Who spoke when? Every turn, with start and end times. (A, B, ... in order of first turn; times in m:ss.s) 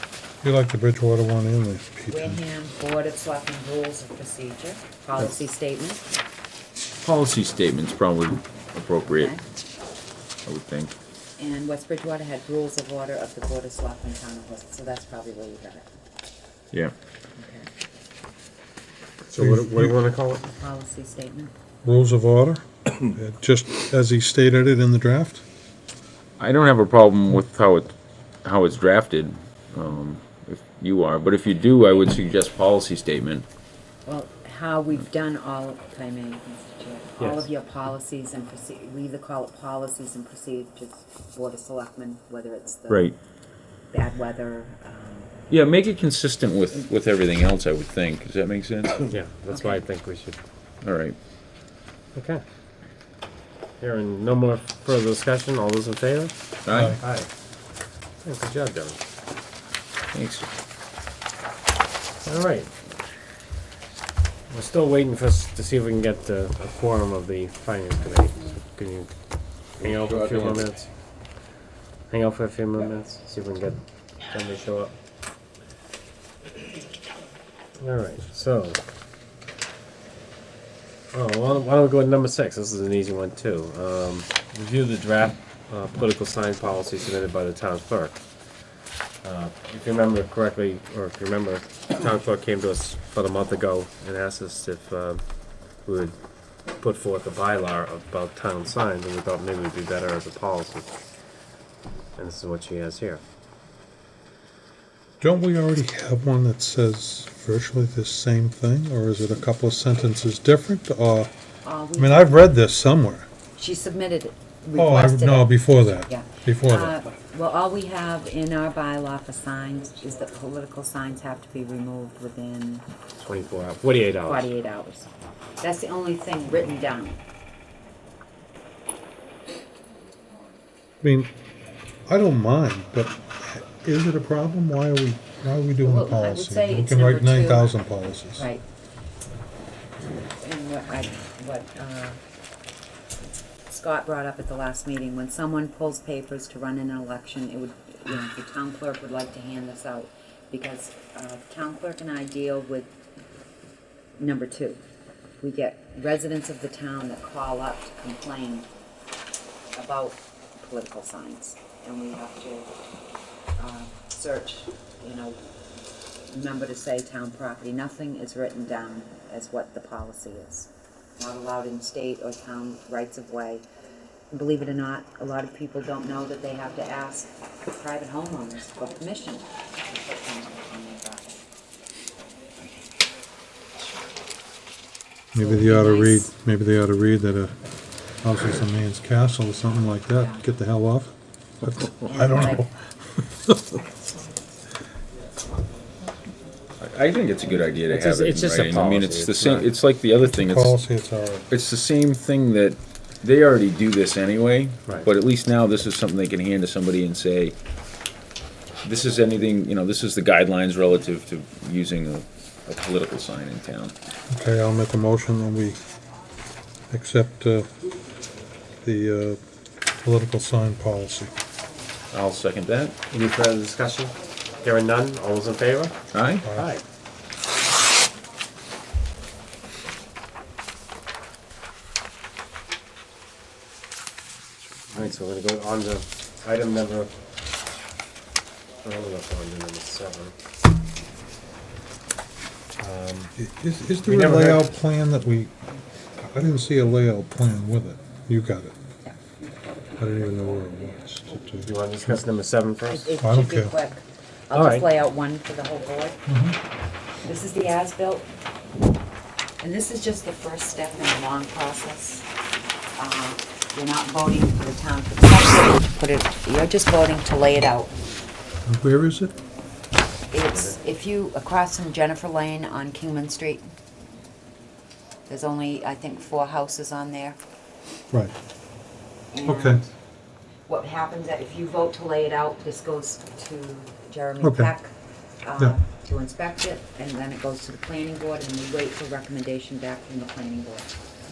0:00.4-0:02.4 A
0:02.1-0:06.0 B
0:07.0-0:09.3 C
0:09.1-0:09.4 B
0:10.4-0:10.9 C
0:11.4-0:15.9 B
0:17.4-0:17.7 B
0:19.3-0:20.4 D
0:19.4-0:20.0 A
0:20.4-0:21.5 B
0:21.8-0:25.4 A
0:26.4-0:33.4 C
0:34.0-0:43.1 B
0:37.2-0:37.5 D
0:42.9-0:43.2 C
0:43.9-0:45.3 B
0:45.5-0:49.0 C
0:49.1-0:50.4 D
0:49.5-0:49.8 B
0:50.8-0:51.2 C
0:52.1-0:52.4 D
0:53.8-0:56.3 D
0:56.6-0:57.0 C
0:57.0-0:57.3 D
0:58.2-0:59.0 D
1:00.1-1:00.5 C
1:02.2-1:02.7 D
1:04.5-1:09.1 D
1:09.8-1:10.9 D
1:09.8-1:10.7 C
1:12.1-1:14.9 D
1:17.8-1:18.8 D
1:21.1-1:28.2 D
1:29.2-1:35.2 D
1:35.8-1:36.2 D
1:36.8-1:40.9 D
1:42.2-1:43.2 D
1:45.2-1:51.3 A
1:51.6-1:52.4 B
1:52.0-1:53.3 A
1:53.6-2:02.8 B
1:54.8-1:56.9 A
2:03.2-2:04.5 D
2:04.2-2:05.1 B
2:05.6-2:07.2 B
2:11.0-2:11.3 A
2:12.1-2:18.5 A
2:15.8-2:17.8 B
2:18.3-2:18.6 B
2:20.4-2:22.2 B
2:23.7-2:32.9 B
2:34.2-2:34.8 B
2:35.4-2:38.7 B
2:39.7-2:42.7 B
2:43.6-2:45.4 B
2:46.3-2:53.6 B
2:54.3-3:01.4 B
3:05.3-3:07.6 A
3:05.4-3:06.3 B
3:08.2-3:13.8 A
3:12.0-3:12.7 B
3:16.8-3:20.8 C
3:17.9-3:19.7 D
3:20.2-3:21.5 A
3:21.5-3:27.5 C
3:28.8-3:33.9 C
3:34.3-3:35.8 A
3:36.9-3:37.7 A
3:38.8-3:39.4 A
3:40.0-3:41.3 A
3:42.1-3:43.0 C
3:43.1-3:46.0 D
3:46.1-3:46.5 C
3:46.4-3:46.7 A
3:46.5-3:46.8 D
3:54.9-3:57.1 D
3:58.8-4:00.3 D
4:02.8-4:03.3 D
4:03.4-4:05.5 A
4:04.0-4:04.7 D
4:06.2-4:08.7 A
4:10.0-4:12.2 A
4:11.6-4:13.2 D
4:12.9-4:16.2 B
4:13.2-4:13.7 A
4:14.5-4:14.9 D
4:16.3-4:16.6 A
4:17.2-4:18.3 B
4:19.6-4:22.2 B
4:23.0-4:27.9 B
4:28.6-4:29.3 A
4:30.3-4:33.7 B
4:35.3-4:37.4 B
4:39.3-4:39.9 B
4:39.4-4:39.8 A
4:40.7-4:44.9 B
4:44.4-4:44.7 A
4:45.4-4:50.9 B